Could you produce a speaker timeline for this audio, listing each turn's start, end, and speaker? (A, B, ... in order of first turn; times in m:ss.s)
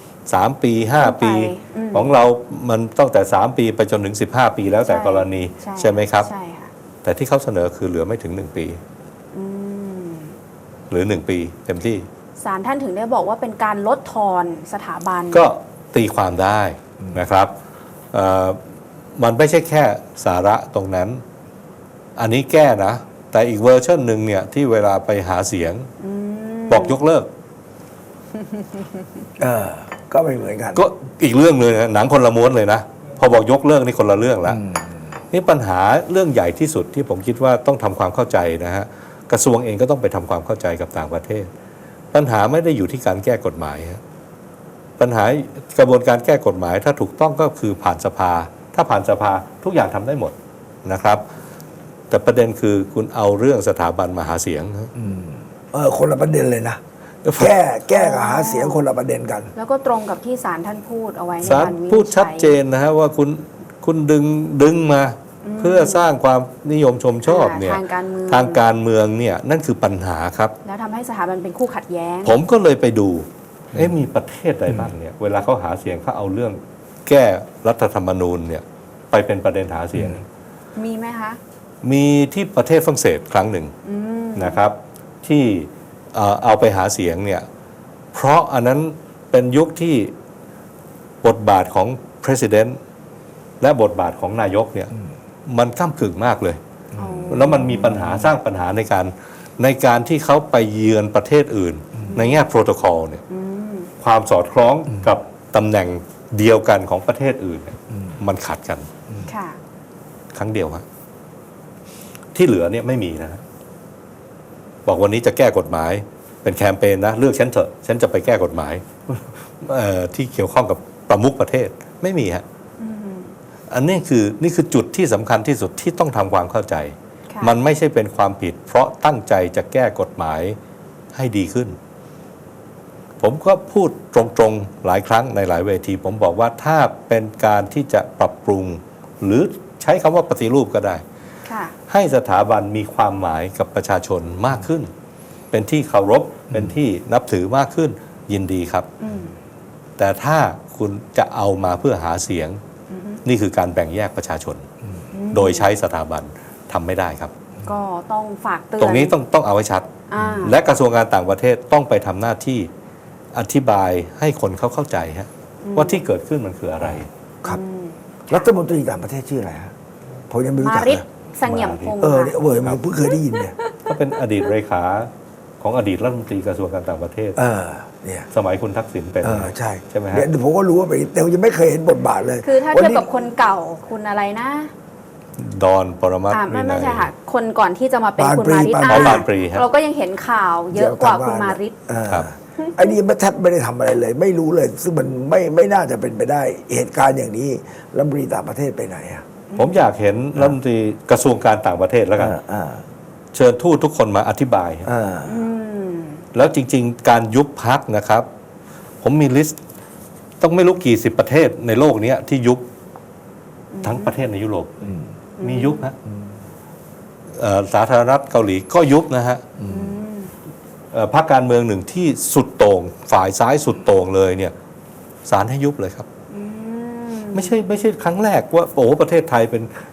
0:00.3-0:06.3 A
0:01.0-0:02.1 B
0:04.9-0:06.7 B
0:07.0-0:08.8 A
0:09.3-0:10.3 B
0:10.9-0:12.1 A
0:12.4-0:15.5 B
0:15.3-0:17.5 A
0:18.1-0:18.6 A
0:19.2-0:21.2 A
0:22.2-0:25.9 A
0:26.0-0:27.0 B
0:26.7-0:27.3 A
0:28.4-0:28.8 B
0:29.4-0:30.8 C
0:30.7-0:34.6 A
0:34.4-0:35.1 C
0:35.3-0:41.5 A
0:42.1-0:44.0 A
0:45.0-0:51.2 A
0:52.1-0:54.9 A
0:54.9-0:56.8 C
0:57.2-0:57.5 A
0:57.4-0:59.5 C
0:57.9-0:58.8 B
0:59.5-1:02.5 B
1:01.4-1:10.5 A
1:05.4-1:06.1 B
1:07.2-1:08.6 B
1:10.6-1:12.3 B
1:12.2-1:20.2 A
1:20.8-1:21.4 B
1:21.8-1:23.7 A
1:23.8-1:24.6 B
1:24.4-1:27.4 A
1:28.1-1:30.1 A
1:31.2-1:32.8 A
1:33.6-1:34.9 A
1:35.5-1:36.6 A
1:36.9-1:38.3 C
1:37.0-1:38.0 B
1:37.3-1:43.2 A
1:42.1-1:42.4 B
1:43.3-1:43.9 B
1:44.0-1:48.9 A
1:49.2-1:49.6 B
1:50.3-1:50.8 A
1:52.3-1:53.4 A
1:54.8-2:02.4 A
2:02.8-2:03.3 B
2:03.7-2:10.6 A
2:07.3-2:07.5 B
2:11.1-2:11.8 A
2:13.2-2:21.0 A
2:21.4-2:21.7 B
2:21.9-2:24.9 A
2:25.5-2:28.9 A
2:29.0-2:29.4 B
2:30.0-2:32.6 A
2:32.9-2:33.2 B
2:33.2-2:34.6 A
2:35.1-2:35.7 B
2:35.3-2:37.3 A
2:37.6-2:39.1 B
2:38.8-2:39.9 A
2:40.1-2:40.6 B
2:40.2-2:40.4 C
2:40.4-2:42.7 A
2:43.3-2:47.1 A
2:45.6-2:46.0 B
2:47.4-2:48.5 B
2:48.3-2:49.7 C
2:50.3-2:51.0 C
2:50.6-2:52.4 B
2:51.4-2:51.9 A
2:52.0-2:53.5 C
2:53.1-2:53.8 B
2:53.8-2:55.1 A
2:55.6-2:57.4 A
2:57.4-2:58.3 C
2:58.3-3:00.3 A
2:59.2-3:03.1 C
3:02.4-3:04.7 B
3:05.4-3:07.1 A
3:06.3-3:11.7 B
3:08.2-3:09.2 C
3:08.9-3:09.6 A
3:10.7-3:19.2 C
3:12.6-3:12.9 B
3:19.6-3:22.3 A
3:22.2-3:22.8 C
3:23.3-3:24.9 A
3:24.8-3:25.4 C
3:25.3-3:26.2 B
3:26.3-3:28.2 A
3:29.0-3:29.5 A
3:30.4-3:32.6 A
3:33.7-3:34.1 B
3:33.8-3:34.8 A
3:34.8-3:35.1 C
3:35.4-3:35.8 B
3:35.4-3:36.0 A
3:37.4-3:39.4 A
3:39.6-3:39.9 C
3:39.7-3:40.3 B
3:40.9-3:44.5 A
3:45.2-3:46.1 A
3:46.3-3:47.6 B
3:47.3-3:49.7 A